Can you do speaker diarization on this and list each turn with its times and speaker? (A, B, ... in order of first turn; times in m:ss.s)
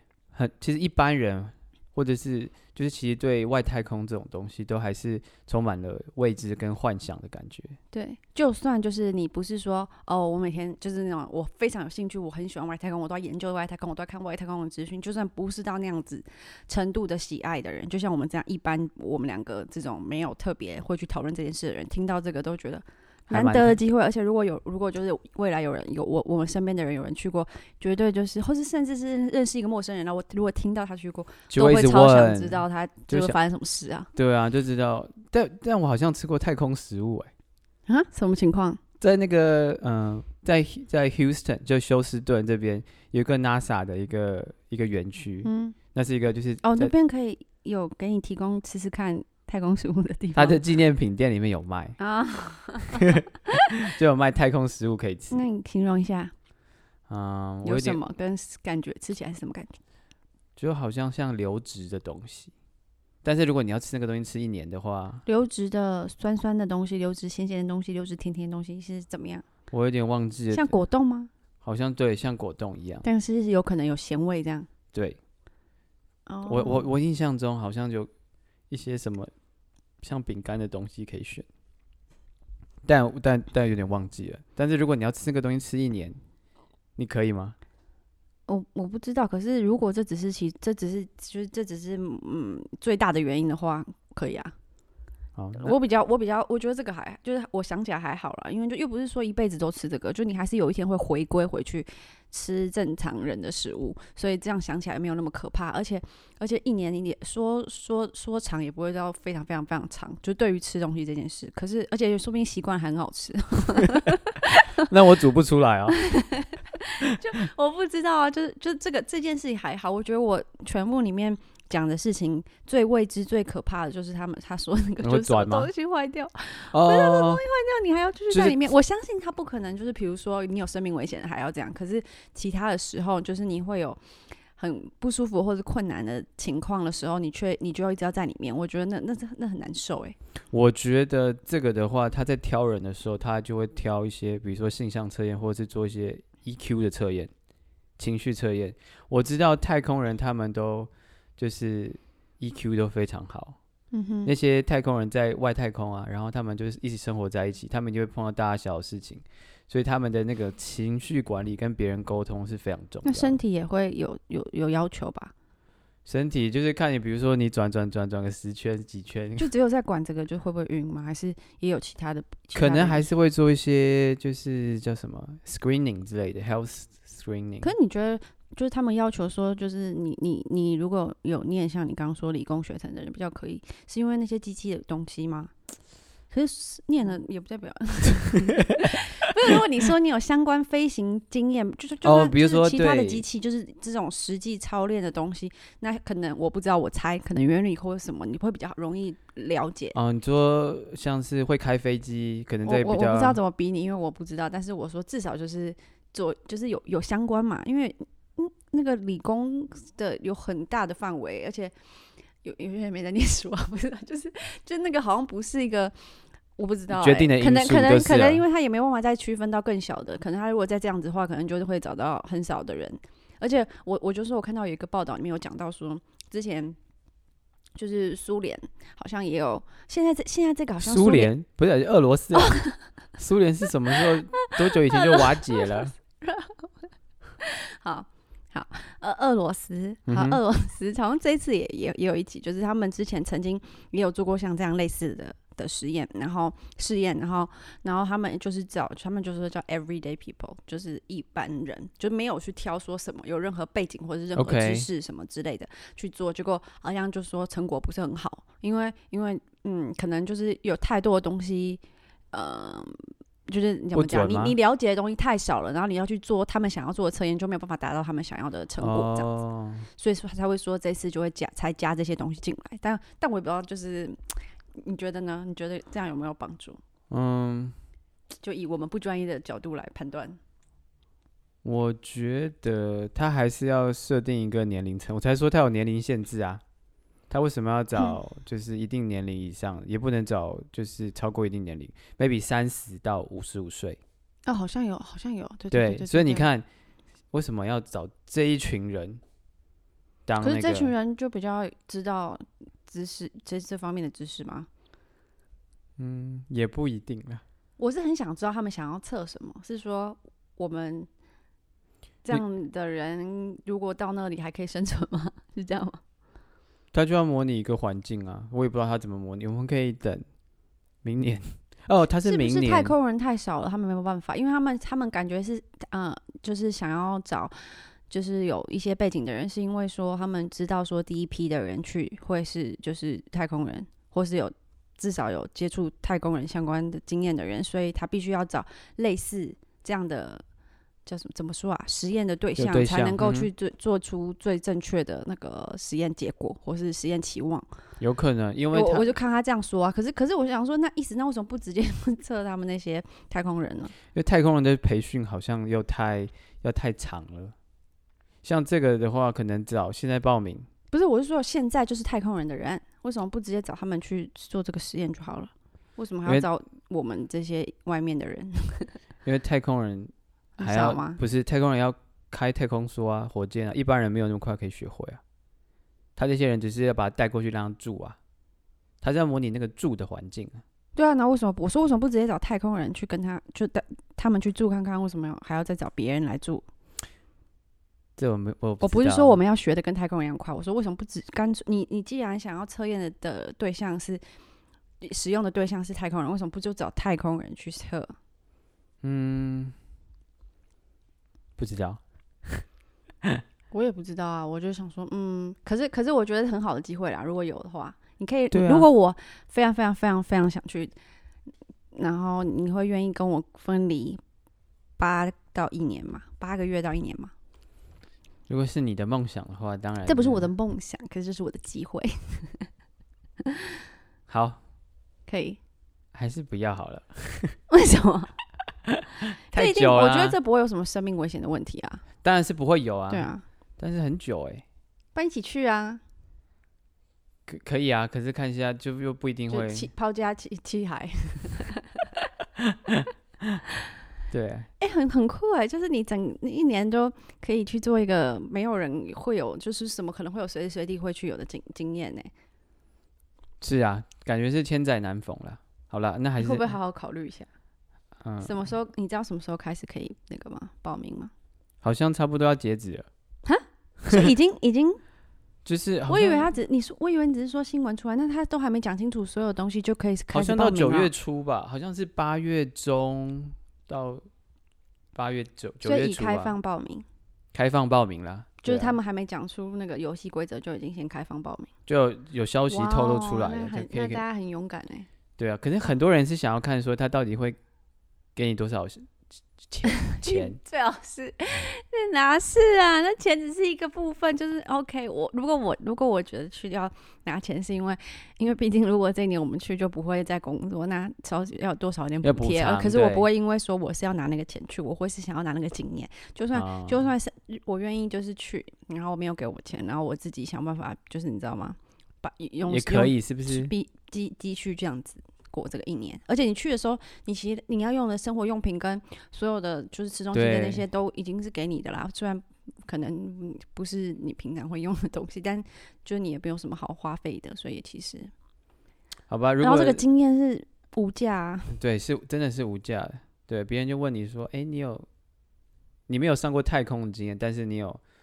0:00.3-0:07.8 A
0:07.9-0:34.1 B
0:23.3-0:23.8 A
0:31.5-0:33.4 A
0:34.1-0:37.3 A
0:37.9-0:38.8 B
0:39.0-0:46.9 A
0:45.4-0:45.8 B
0:46.6-0:50.6 B
0:50.3-0:52.0 A
0:52.0-0:53.1 B
0:53.9-0:55.4 A
0:55.3-0:56.3 B
0:57.1-0:58.0 A
0:57.6-0:59.8 B
1:00.6-1:02.5 A
1:03.2-1:05.2 A
1:05.2-1:09.4 B
1:09.7-1:10.7 A
1:10.5-1:11.3 B
1:11.6-1:13.0 A
1:13.0-1:14.7 B
1:14.9-1:15.2 A
1:16.3-1:16.9 B
1:16.5-1:18.1 A
1:18.7-1:19.3 A
1:20.0-1:21.4 A
1:22.8-1:26.2 A
1:27.0-1:27.5 A
1:28.5-1:34.5 B
1:35.4-1:35.7 A
1:35.6-1:54.6 B
1:54.8-1:56.0 A
1:55.9-2:14.0 B
2:05.0-2:05.7 A
2:06.7-2:07.4 A
2:08.3-2:08.6 A
2:14.6-2:20.2 B
2:20.5-2:27.3 A
2:28.0-2:33.6 A
2:33.9-2:34.3 B
2:34.2-2:43.4 A
2:43.0-2:45.3 B
2:46.0-2:49.5 A
2:49.4-2:53.1 B
2:52.5-2:57.7 A
2:57.6-3:05.5 B
3:06.3-3:20.0 B
3:12.0-3:13.2 A
3:19.9-3:23.4 A
3:22.6-3:31.7 B
3:32.4-3:35.9 B
3:36.6-3:46.8 B
3:36.9-3:38.4 A
3:47.8-3:51.3 B
3:50.8-3:52.6 A
3:53.2-3:55.9 A
3:54.7-3:55.6 B
3:56.2-3:56.7 B
3:57.4-4:21.8 B
4:00.1-4:00.4 A
4:14.3-4:14.9 A
4:22.3-4:29.3 B
4:23.9-4:24.5 A
4:28.8-4:29.9 A
4:30.0-4:36.8 B
4:37.1-4:37.7 A
4:38.4-4:40.4 B
4:41.6-4:46.6 A
4:47.3-4:54.0 A
4:54.4-4:56.4 B
4:55.7-4:56.6 A
4:57.3-4:59.2 A
5:00.2-5:00.9 A
5:00.4-5:04.7 B
5:06.0-5:07.4 A
5:07.8-5:11.1 B
5:12.2-5:16.0 B
5:16.9-5:20.2 A
5:21.0-5:22.9 A
5:22.2-5:40.4 B
5:41.0-5:47.7 B
5:42.6-5:43.5 A
5:48.0-5:49.1 A
5:48.7-5:53.9 B
5:54.1-5:57.5 A
5:58.4-6:00.7 A
6:00.9-6:08.9 B
6:09.2-6:15.2 A
6:10.6-6:11.2 B
6:16.2-6:18.2 A
6:19.0-6:20.6 A
6:21.0-6:26.6 B
6:28.2-6:29.4 A
6:28.8-6:34.2 B
6:35.0-6:38.1 B
6:39.0-6:39.7 A
6:41.6-6:42.6 A
6:43.7-6:50.9 B
6:48.5-6:48.9 A
6:51.9-6:54.2 B
6:55.0-6:57.3 B
6:58.5-7:00.5 A
7:00.0-7:02.7 B
7:04.3-7:04.6 A
7:05.3-7:05.6 B
7:06.1-7:07.6 A
7:07.7-7:08.3 B
7:09.5-7:12.0 B
7:09.5-7:10.4 A
7:12.2-7:14.6 A
7:13.1-7:13.4 B
7:15.1-7:16.0 B
7:17.5-7:19.9 A
7:19.5-7:22.0 B
7:24.3-7:24.7 A
7:24.8-7:32.3 B
7:33.6-7:36.7 A
7:36.4-7:37.5 B
7:38.2-7:38.6 A
7:38.4-7:41.3 B
7:41.8-7:43.1 A
7:43.4-7:45.0 B
7:45.6-7:46.5 A
7:46.1-7:51.1 B
7:50.3-7:54.2 A
7:55.1-7:56.5 A
7:55.8-7:57.0 B
7:57.5-7:59.0 A
7:58.6-8:01.7 B
8:01.9-8:04.2 A
8:02.7-8:05.1 B
8:05.4-8:07.6 A
8:08.4-8:10.6 A
8:10.1-8:48.3 B
8:22.2-8:23.3 A
8:26.5-8:27.1 A
8:32.7-8:33.7 A
8:40.3-8:40.8 A
8:49.3-8:50.0 A
8:49.6-8:51.7 B
8:51.7-8:55.1 A
8:56.1-8:58.0 A